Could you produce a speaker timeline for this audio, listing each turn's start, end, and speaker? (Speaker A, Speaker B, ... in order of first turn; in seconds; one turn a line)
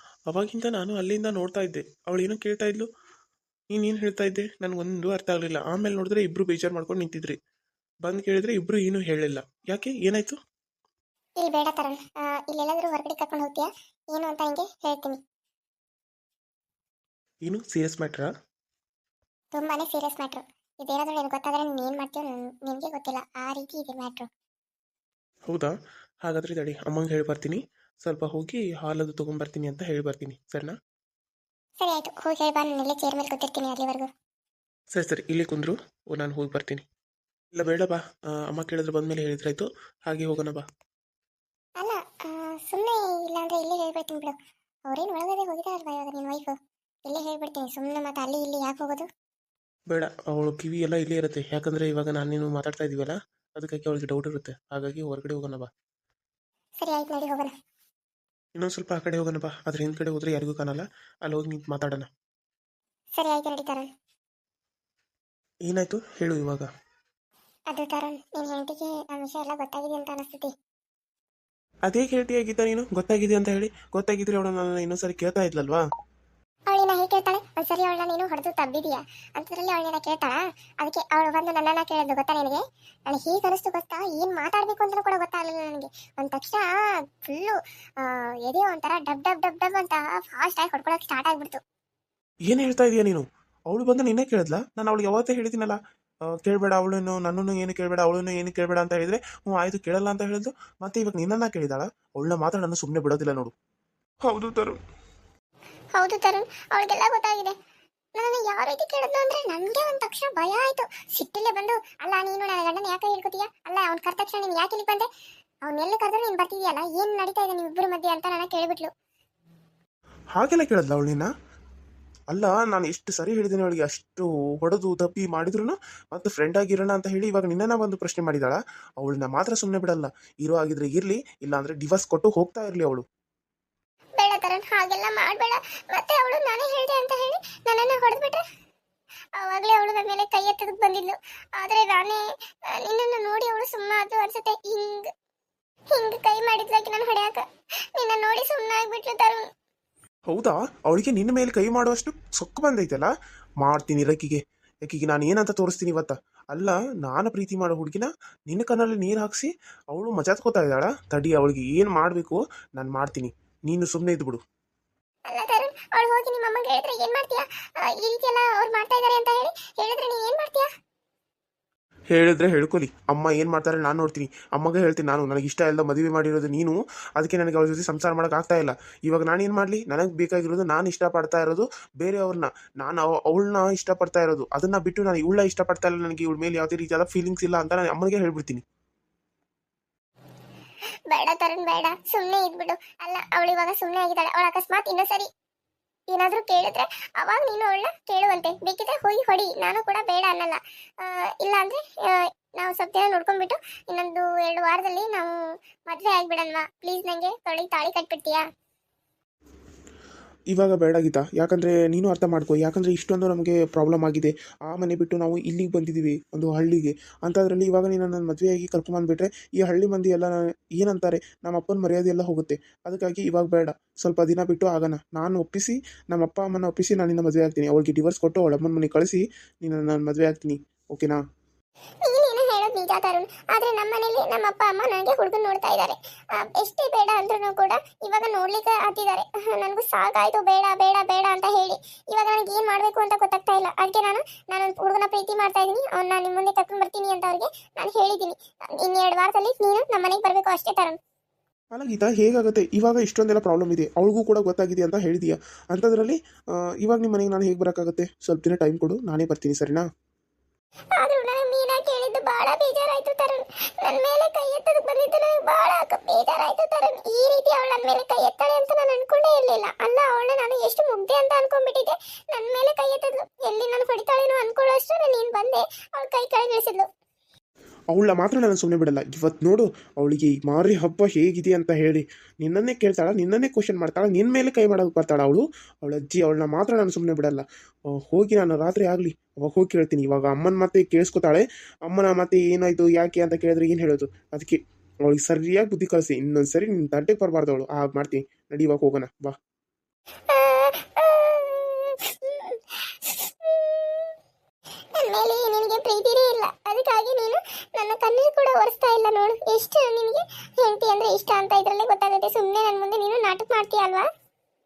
Speaker A: 0.3-2.9
Speaker A: 3.7-7.4
Speaker A: 8.0-10.4
Speaker B: 11.4-15.2
Speaker A: 17.4-18.3
Speaker B: 19.5-24.3
Speaker A: 25.5-30.8
Speaker B: 31.8-34.1
Speaker A: 34.9-36.8
Speaker A: 37.5-40.6
Speaker B: 41.8-44.4
Speaker B: 44.9-46.5
Speaker B: 47.1-49.1
Speaker A: 49.9-55.7
Speaker B: 56.8-57.5
Speaker A: 58.5-62.1
Speaker B: 63.1-63.9
Speaker A: 65.6-66.7
Speaker B: 67.7-70.5
Speaker A: 71.9-75.8
Speaker B: 76.7-86.7
Speaker B: 87.2-91.6
Speaker A: 92.5-95.8
Speaker A: 96.3-103.5
Speaker A: 104.2-104.8
Speaker B: 106.0-107.5
Speaker B: 108.2-115.1
Speaker B: 115.7-118.9
Speaker A: 120.3-121.3
Speaker A: 122.3-133.1
Speaker B: 134.2-138.4
Speaker B: 139.4-145.1
Speaker B: 145.9-147.4
Speaker B: 148.0-149.5
Speaker A: 150.3-164.4
Speaker B: 165.3-170.7
Speaker A: 172.1-188.6
Speaker B: 191.1-195.3
Speaker B: 196.1-205.3
Speaker B: 205.9-208.4
Speaker A: 210.5-231.2
Speaker B: 232.1-251.0
Speaker A: 251.7-256.2
Speaker A: 256.8-259.9
Speaker B: 261.0-276.9
Speaker A: 277.9-299.4
Speaker B: 300.3-304.1
Speaker B: 305.0-314.1